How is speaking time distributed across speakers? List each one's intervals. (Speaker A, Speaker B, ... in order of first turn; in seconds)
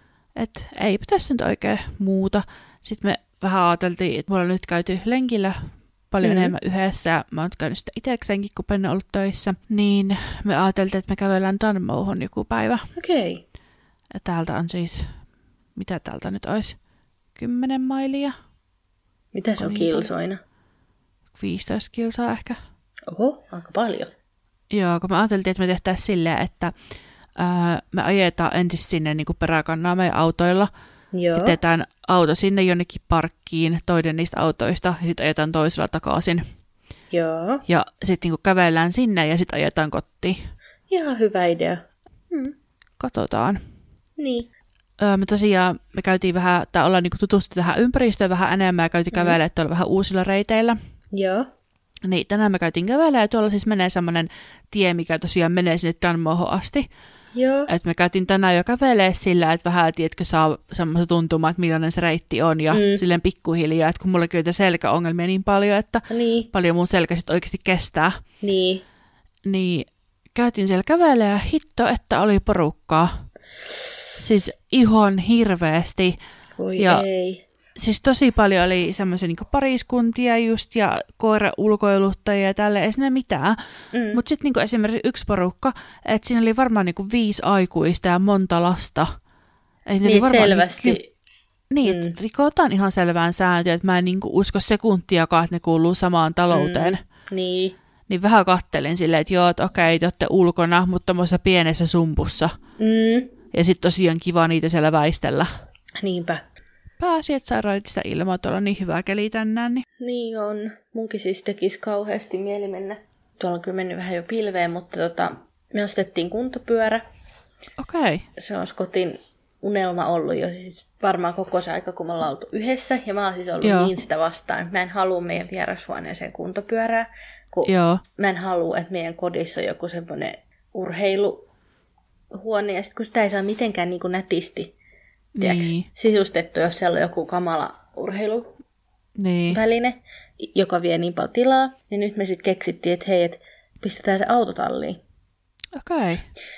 Speaker A: 0.4-5.6, 6.1-12.9, 14.1-15.1, 15.8-16.8, 17.4-18.4, 19.6-20.1, 21.4-22.6, 24.7-26.7, 27.4-30.7, 31.3-36.4, 37.7-40.4, 43.0-43.6, 45.0-50.8, 52.0-56.9, 57.7-68.2, 69.5-73.2, 74.2-76.2, 76.8-77.0, 77.8-83.6, 84.1-89.1, 89.9-91.0, 91.7-97.0, 98.1-102.6, 103.5-105.5, 107.0-109.8, 117.8-118.3, 123.6-123.9, 127.7-128.0, 135.4-135.9, 139.2-139.6, 145.8-146.3
Speaker B: 6.2-6.5, 13.0-13.4, 19.3-20.4, 23.1-24.1, 31.1-31.6, 37.1-37.6, 40.9-42.5, 44.2-44.5, 49.1-49.4, 51.1-51.5, 57.4-57.7, 62.7-63.0, 66.1-66.5, 68.4-68.8, 76.6-77.4, 83.9-84.2, 90.0-91.1, 91.8-92.2, 96.5-97.8, 102.8-103.3, 106.0-106.4, 110.0-117.0, 118.4-131.5, 132.3-134.7, 135.4-138.5, 139.5-145.0